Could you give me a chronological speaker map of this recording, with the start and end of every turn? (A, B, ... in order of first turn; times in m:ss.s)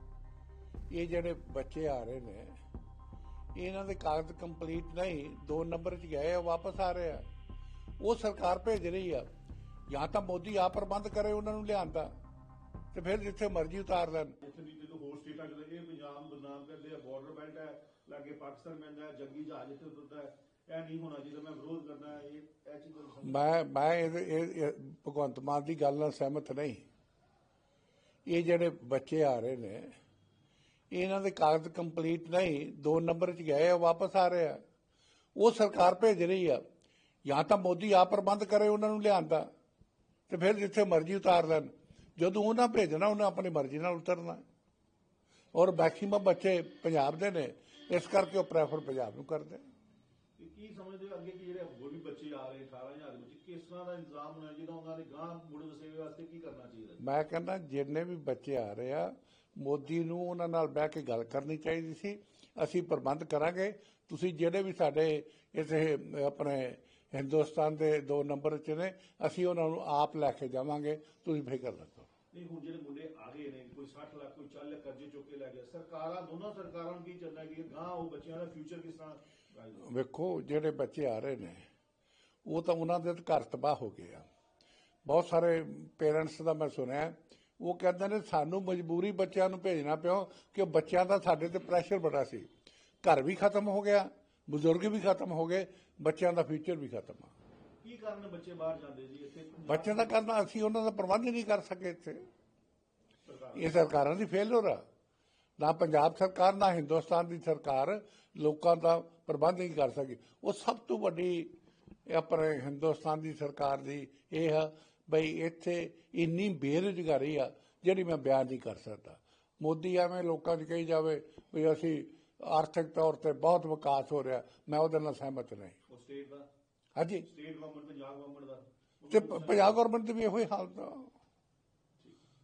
0:00.9-0:02.6 A
0:03.6-0:07.2 A
0:08.0-0:09.3 A
0:09.9-0:12.1 A
0:12.9-0:14.4 A
0:14.4-0:23.4 B
0:23.2-0:26.8 A
0:28.2-0:29.9 A
0:30.9-0:34.6 A
0:35.3-0:36.6 A
0:37.2-0:39.5 A
0:40.3-0:44.4 A
0:45.5-0:49.6 A
0:50.4-0:57.0 B
0:57.0-1:12.1 A
1:12.3-1:19.8 B
1:19.8-1:21.6 A
1:22.4-1:24.2 A
1:25.0-1:32.5 A
1:33.0-1:37.3 A
1:37.8-1:40.1 B
1:39.7-1:42.2 A
1:43.2-1:43.7 B
1:43.5-1:44.8 A
1:45.6-1:51.5 A
1:52.1-2:05.8 A
2:05.9-2:06.5 B
2:07.0-2:07.3 A
2:07.2-2:09.8 B
2:09.1-2:11.1 A